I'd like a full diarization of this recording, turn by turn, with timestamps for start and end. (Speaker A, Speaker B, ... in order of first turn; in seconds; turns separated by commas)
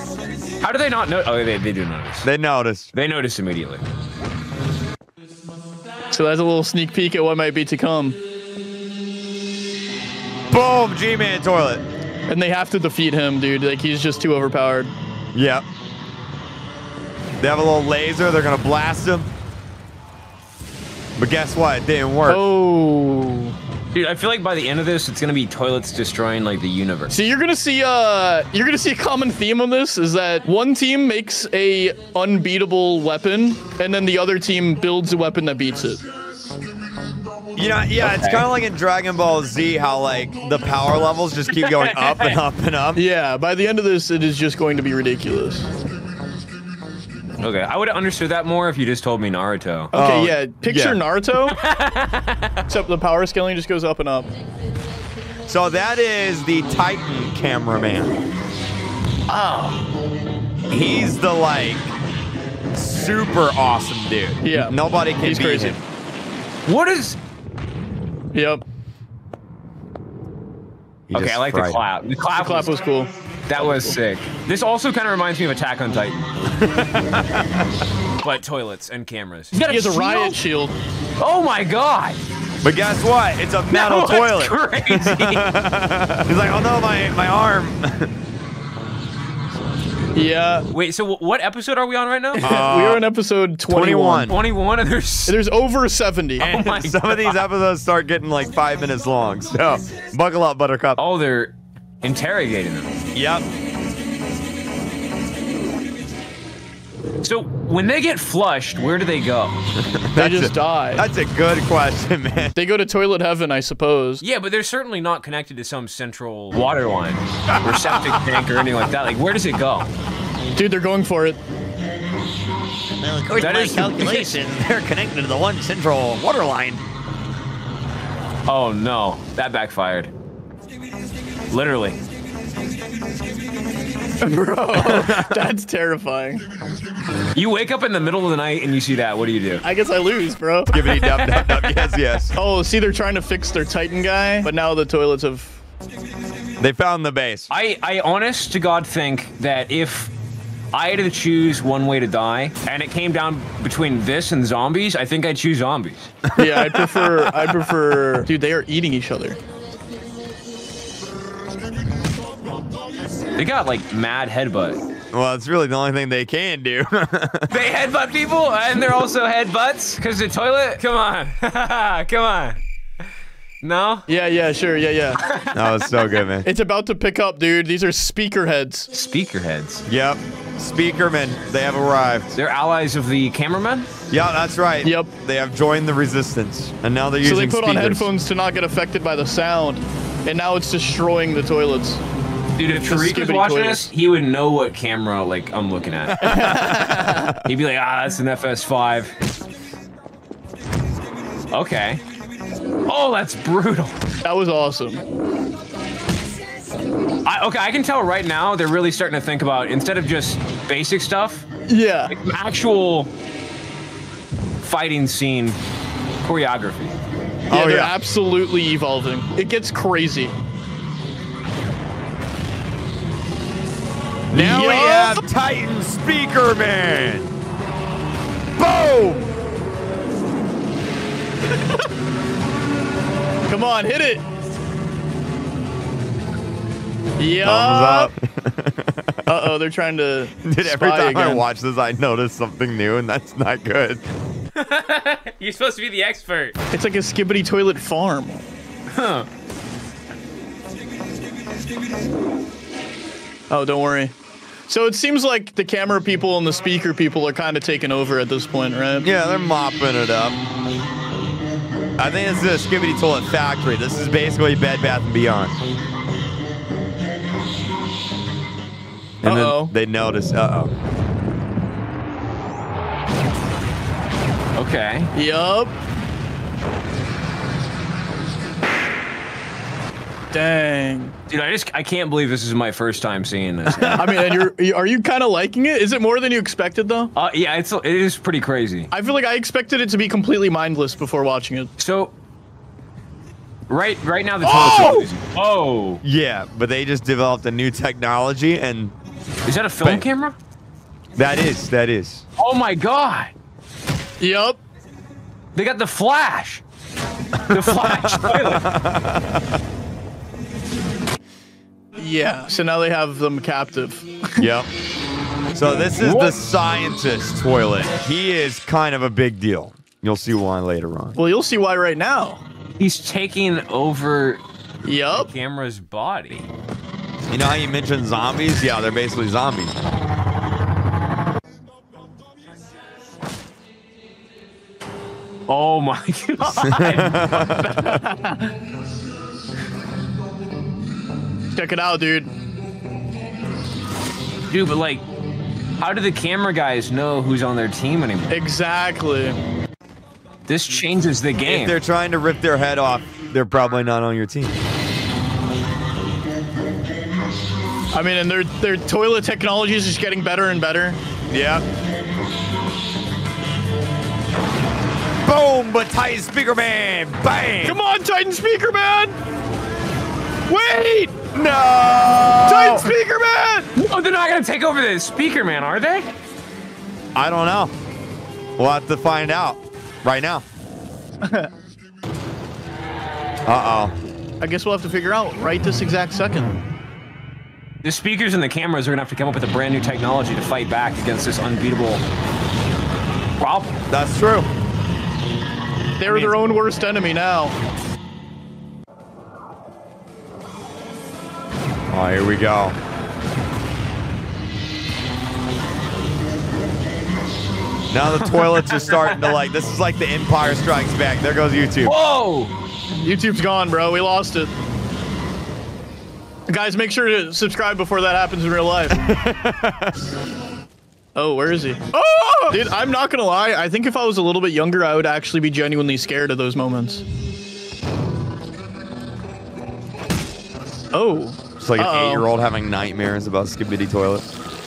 Speaker A: 0.6-2.3, Speaker B: 2.2-2.9, Speaker A: 2.9-3.8, Speaker C: 6.1-8.2, Speaker B: 10.5-11.8, Speaker C: 12.3-14.9, Speaker B: 15.3-15.6, Speaker B: 17.4-19.3, Speaker B: 21.2-22.4, Speaker C: 22.3-23.6, Speaker A: 23.9-27.1, Speaker C: 27.1-36.0, Speaker B: 37.6-43.0, Speaker A: 38.0-38.5, Speaker A: 41.5-42.4, Speaker C: 43.0-45.7, Speaker A: 47.4-49.9, Speaker C: 49.9-51.6, Speaker B: 49.9-51.0, Speaker A: 51.5-52.7, Speaker C: 52.7-54.3, Speaker B: 55.5-58.2, Speaker A: 59.3-59.8, Speaker B: 60.7-61.9, Speaker B: 62.7-65.8, Speaker C: 64.4-65.8, Speaker A: 66.7-67.2, Speaker C: 68.3-68.6, Speaker B: 71.1-71.8, Speaker A: 71.1-72.7, Speaker C: 72.3-74.0, Speaker A: 73.5-76.2, Speaker B: 76.6-77.7, Speaker A: 78.2-80.4, Speaker C: 79.5-80.8, Speaker A: 81.2-82.2, Speaker B: 82.6-88.1, Speaker A: 83.7-85.5, Speaker C: 90.1-90.7, Speaker A: 90.7-92.5, Speaker C: 92.4-94.4, Speaker B: 92.4-93.0, Speaker B: 93.7-94.4, Speaker A: 94.3-95.4, Speaker C: 95.3-96.5, Speaker B: 96.4-101.0, Speaker A: 96.4-97.4, Speaker A: 101.0-102.9, Speaker B: 103.1-103.5, Speaker A: 107.2-109.6, Speaker B: 109.8-112.6, Speaker C: 110.2-111.1, Speaker C: 112.5-114.2, Speaker A: 114.2-119.9, Speaker C: 120.6-121.4, Speaker B: 123.0-126.8, Speaker A: 123.3-124.4, Speaker A: 128.5-130.1, Speaker A: 131.5-132.0, Speaker C: 134.2-136.4, Speaker B: 134.7-135.4, Speaker A: 137.3-139.7, Speaker C: 139.6-140.8, Speaker B: 140.7-142.4, Speaker A: 140.8-142.0, Speaker C: 142.3-145.6, Speaker B: 146.6-147.5, Speaker A: 147.5-150.1, Speaker A: 150.7-156.1, Speaker B: 156.3-157.7, Speaker C: 156.4-159.4, Speaker A: 163.4-164.8, Speaker B: 165.1-167.6, Speaker A: 167.5-172.6, Speaker A: 173.6-174.1, Speaker C: 174.1-175.2, Speaker A: 175.2-176.2, Speaker B: 175.5-176.5, Speaker C: 176.4-178.9, Speaker A: 178.9-179.9, Speaker B: 179.9-182.3, Speaker A: 182.3-183.9, Speaker B: 184.1-188.1, Speaker C: 184.8-185.1, Speaker C: 187.2-192.0, Speaker A: 192.6-199.1, Speaker C: 192.9-193.9, Speaker B: 196.2-197.4, Speaker C: 196.2-197.4, Speaker A: 201.5-202.0, Speaker A: 202.9-204.0, Speaker C: 204.2-205.0, Speaker A: 207.2-211.5, Speaker C: 211.7-212.2, Speaker A: 212.1-213.1, Speaker A: 214.6-215.6, Speaker A: 216.2-217.0, Speaker B: 217.5-217.9, Speaker C: 217.5-220.4, Speaker B: 224.3-227.3, Speaker C: 224.3-225.2, Speaker B: 228.6-229.3, Speaker C: 231.5-231.9, Speaker C: 233.5-234.2, Speaker C: 237.2-238.1, Speaker B: 237.4-239.3, Speaker C: 239.3-241.5, Speaker B: 240.4-244.0, Speaker A: 244.6-246.6, Speaker C: 246.7-248.5, Speaker A: 248.9-249.3, Speaker C: 253.5-254.1, Speaker C: 254.7-259.1, Speaker B: 259.0-260.4, Speaker B: 262.0-265.6, Speaker B: 269.2-270.7, Speaker C: 269.2-269.7, Speaker A: 274.6-275.1, Speaker C: 275.1-275.7, Speaker C: 280.3-281.1, Speaker A: 281.3-284.2, Speaker B: 283.7-284.0, Speaker C: 283.9-287.1, Speaker A: 287.1-288.9, Speaker C: 288.9-291.7, Speaker A: 291.8-292.1, Speaker A: 293.7-296.0, Speaker C: 294.4-295.1, Speaker B: 296.0-298.9, Speaker A: 299.4-300.4, Speaker B: 301.2-302.2, Speaker A: 302.4-303.3, Speaker C: 304.2-304.6, Speaker A: 305.6-306.6, Speaker B: 307.5-309.5, Speaker A: 307.5-308.7, Speaker C: 312.0-314.5, Speaker B: 314.4-314.7, Speaker B: 315.5-321.2, Speaker A: 316.0-316.4, Speaker C: 321.1-322.4, Speaker A: 322.8-324.4, Speaker C: 324.8-325.3, Speaker A: 325.1-326.5, Speaker B: 327.3-329.8, Speaker A: 335.5-338.1, Speaker B: 336.4-337.8, Speaker C: 337.8-338.5, Speaker C: 341.5-342.3, Speaker A: 344.5-345.1, Speaker A: 345.8-348.4, Speaker C: 348.3-349.4, Speaker A: 350.5-351.8, Speaker B: 351.4-354.6, Speaker C: 357.9-361.0, Speaker B: 361.3-361.6, Speaker B: 365.2-367.8, Speaker C: 367.6-369.2, Speaker C: 370.5-371.2, Speaker B: 371.3-372.9, Speaker C: 372.5-373.7, Speaker A: 373.8-376.1, Speaker B: 377.1-377.7, Speaker B: 378.6-380.4, Speaker C: 381.2-381.5, Speaker B: 383.5-384.0, Speaker C: 384.4-386.6, Speaker A: 387.8-392.0, Speaker A: 393.4-393.8, Speaker B: 393.9-394.5, Speaker C: 396.0-397.6, Speaker B: 396.1-396.4, Speaker B: 401.9-402.8, Speaker B: 407.9-411.9, Speaker A: 408.2-409.3, Speaker A: 411.8-412.5, Speaker C: 412.9-414.5, Speaker C: 416.5-419.0, Speaker B: 418.9-419.9, Speaker C: 421.1-427.1, Speaker C: 430.9-432.3, Speaker B: 431.6-434.3